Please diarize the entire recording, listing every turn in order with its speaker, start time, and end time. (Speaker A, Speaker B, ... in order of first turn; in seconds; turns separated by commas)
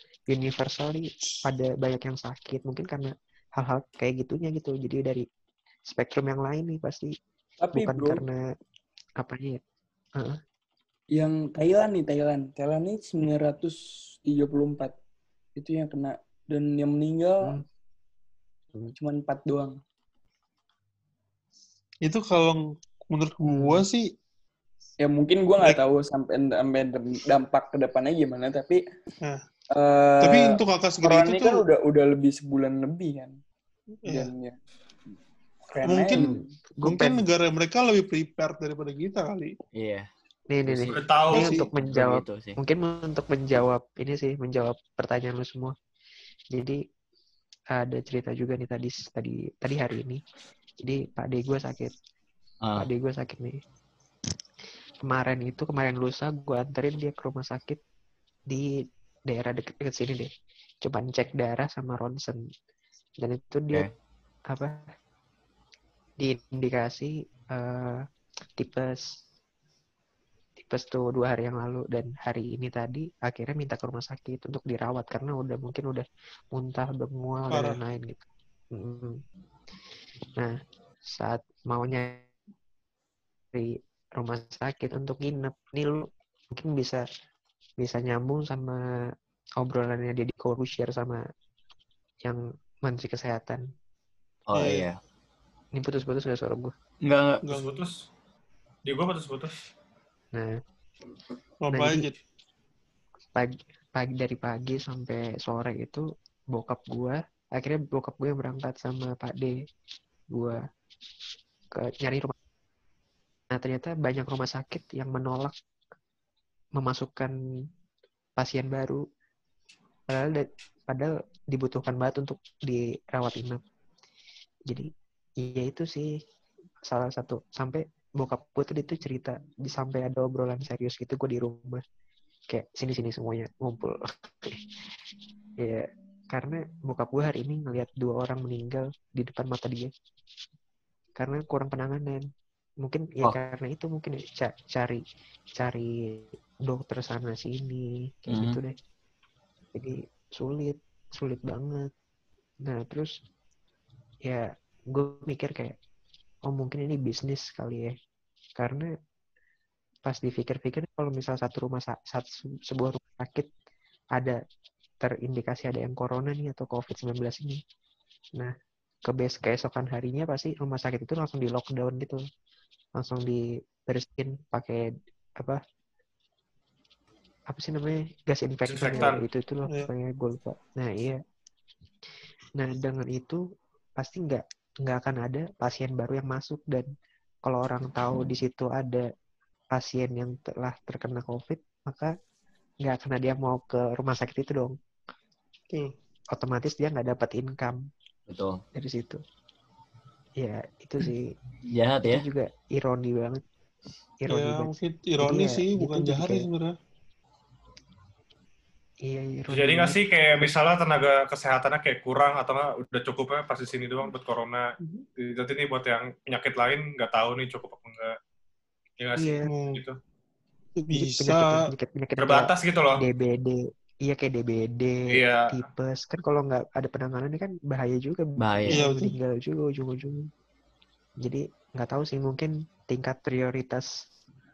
Speaker A: 0.3-5.2, Speaker A: 5.9-7.1, Speaker B: 7.6-8.2, Speaker A: 7.7-8.4, Speaker A: 9.2-9.6, Speaker B: 11.1-14.9, Speaker B: 15.6-17.6, Speaker B: 19.0-19.8, Speaker C: 22.0-24.1, Speaker B: 25.0-28.8, Speaker B: 29.7-33.4, Speaker C: 30.2-31.6, Speaker C: 34.0-34.3, Speaker B: 34.1-34.5, Speaker B: 35.7-36.5, Speaker C: 35.8-39.5, Speaker A: 36.2-37.2, Speaker D: 39.8-40.0, Speaker A: 40.5-45.7, Speaker D: 40.6-41.0, Speaker E: 40.9-41.5, Speaker C: 41.3-41.7, Speaker D: 41.5-42.6, Speaker A: 46.5-46.8, Speaker A: 47.7-50.2, Speaker A: 50.8-51.9, Speaker A: 52.8-53.6, Speaker A: 55.0-57.8, Speaker A: 58.5-60.3, Speaker A: 60.8-62.4, Speaker A: 63.2-63.9, Speaker A: 64.5-64.8, Speaker A: 66.2-68.0, Speaker A: 68.6-69.1, Speaker A: 70.6-79.2, Speaker C: 77.5-77.8, Speaker A: 81.1-82.2, Speaker A: 83.5-87.0, Speaker A: 87.8-88.8, Speaker A: 89.6-91.2, Speaker A: 92.2-93.6, Speaker D: 94.5-95.0, Speaker C: 94.5-94.8, Speaker A: 95.7-96.7, Speaker D: 97.0-97.4, Speaker C: 97.5-97.8, Speaker E: 97.5-98.0, Speaker E: 98.8-99.6, Speaker C: 101.6-102.2, Speaker A: 101.7-102.0, Speaker A: 103.3-109.5, Speaker A: 110.3-110.6, Speaker A: 111.7-112.3, Speaker A: 113.5-115.5, Speaker A: 116.8-117.3, Speaker A: 118.4-119.0, Speaker A: 120.1-123.6, Speaker A: 125.4-126.1, Speaker A: 126.8-131.8, Speaker A: 132.5-134.5, Speaker A: 135.6-139.9, Speaker A: 141.2-142.2, Speaker A: 142.8-145.0, Speaker A: 145.6-148.7, Speaker D: 148.3-148.6, Speaker A: 149.7-151.9, Speaker A: 152.6-153.1, Speaker A: 154.3-155.8, Speaker A: 156.5-157.9, Speaker A: 158.6-158.9, Speaker A: 160.1-163.5, Speaker A: 165.0-167.6, Speaker A: 169.1-172.2, Speaker A: 173.0-175.6, Speaker A: 177.5-181.2, Speaker E: 178.7-179.2, Speaker A: 182.6-183.4, Speaker A: 184.0-186.9, Speaker A: 187.4-189.1, Speaker A: 189.7-192.1, Speaker A: 192.8-194.7, Speaker A: 196.3-197.9, Speaker D: 198.3-198.6, Speaker A: 198.7-199.2, Speaker A: 200.4-201.3, Speaker D: 201.7-202.2, Speaker A: 202.0-203.4, Speaker A: 204.2-206.4, Speaker C: 204.3-206.7, Speaker A: 209.0-210.0, Speaker E: 209.5-218.1, Speaker E: 219.0-220.0, Speaker A: 219.2-219.5, Speaker C: 219.4-219.8, Speaker C: 220.8-221.7, Speaker A: 220.9-230.3, Speaker E: 222.2-223.0, Speaker E: 225.1-225.5, Speaker D: 228.4-228.8, Speaker C: 228.7-229.1, Speaker A: 231.2-233.9